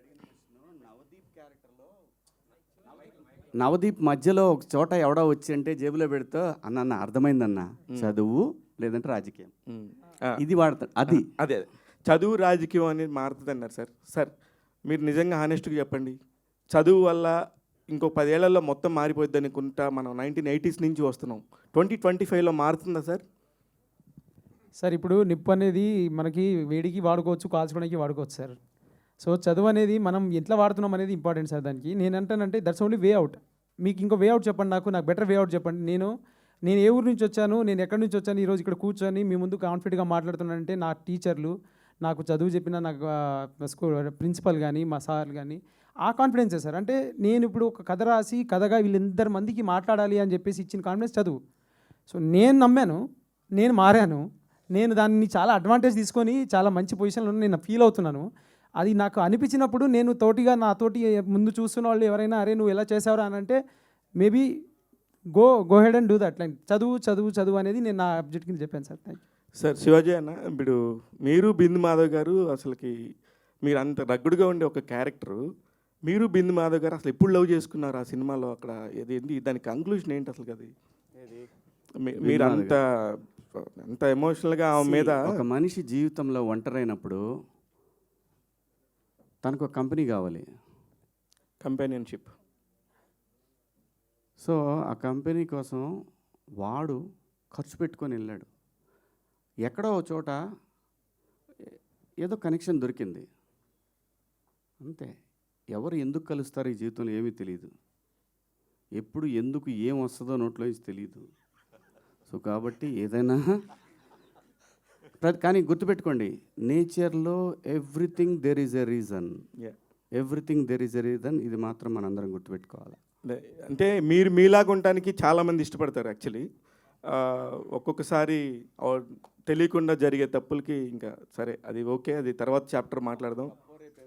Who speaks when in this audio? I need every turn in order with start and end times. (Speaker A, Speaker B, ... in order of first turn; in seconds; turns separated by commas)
Speaker A: 3.6-9.5, Speaker B: 9.7-10.3, Speaker A: 10.4-11.3, Speaker B: 11.1-14.3, Speaker B: 14.9-16.2, Speaker B: 16.7-17.4, Speaker B: 17.9-23.2, Speaker C: 24.8-28.6, Speaker C: 29.2-36.1, Speaker C: 36.6-51.4, Speaker C: 52.1-53.0, Speaker C: 53.6-54.2, Speaker C: 54.7-58.3, Speaker C: 58.8-63.6, Speaker C: 64.2-64.5, Speaker C: 65.4-69.2, Speaker B: 69.6-73.0, Speaker B: 73.6-75.5, Speaker B: 76.1-80.7, Speaker A: 81.2-81.5, Speaker B: 82.0-82.8, Speaker A: 82.2-82.8, Speaker B: 83.5-85.4, Speaker A: 84.8-87.2, Speaker A: 89.4-90.5, Speaker B: 91.6-92.3, Speaker A: 94.4-95.9, Speaker A: 96.6-97.0, Speaker A: 97.5-98.5, Speaker A: 99.7-100.4, Speaker A: 101.7-103.3, Speaker A: 104.8-105.1, Speaker A: 105.7-107.7, Speaker A: 109.0-111.3, Speaker A: 112.3-113.5, Speaker A: 115.2-119.3, Speaker A: 120.1-123.0, Speaker B: 123.2-126.5, Speaker B: 127.1-133.5